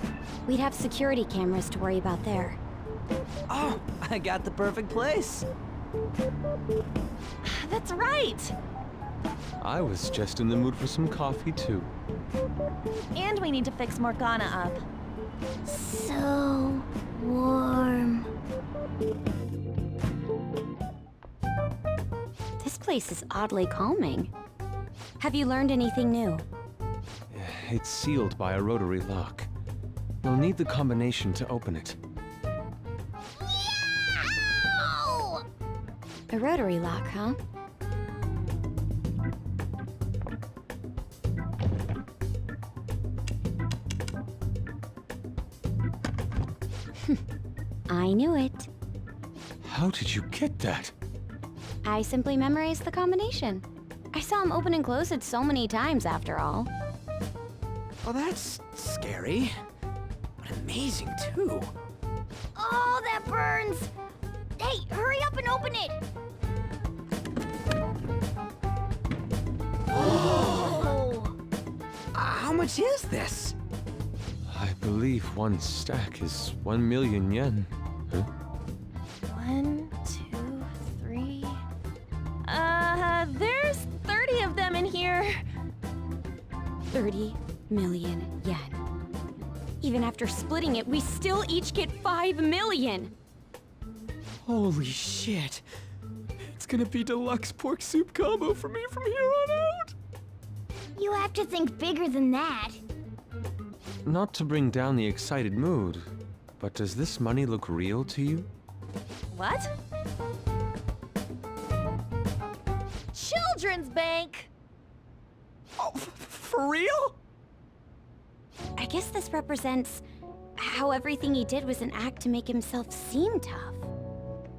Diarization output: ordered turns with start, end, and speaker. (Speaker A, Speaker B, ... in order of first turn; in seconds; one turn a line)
Speaker A: 0.5-2.6
Speaker B: 3.5-5.5
Speaker C: 7.4-8.6
Speaker D: 9.6-11.9
Speaker C: 13.2-14.8
Speaker E: 15.7-18.3
Speaker A: 22.6-24.3
Speaker A: 25.2-26.4
Speaker D: 27.3-29.5
Speaker D: 30.2-32.0
Speaker E: 34.8-35.4
Speaker A: 36.3-37.4
Speaker A: 47.9-48.7
Speaker D: 49.6-50.9
Speaker A: 51.8-56.7
Speaker B: 58.0-59.6
Speaker B: 60.4-61.7
Speaker E: 62.5-63.9
Speaker E: 64.6-66.0
Speaker E: 69.9-71.3
Speaker B: 72.1-73.5
Speaker D: 74.5-78.3
Speaker C: 79.3-81.1
Speaker C: 82.5-85.4
Speaker A: 86.9-88.7
Speaker A: 89.8-92.0
Speaker C: 92.2-92.7
Speaker A: 92.7-93.1
Speaker B: 94.4-95.7
Speaker B: 96.5-99.9
Speaker E: 101.0-102.8
Speaker D: 104.0-108.5
Speaker C: 109.3-109.7
Speaker C: 113.1-114.5
Speaker B: 115.8-117.1
Speaker A: 118.8-120.0
Speaker A: 120.6-123.9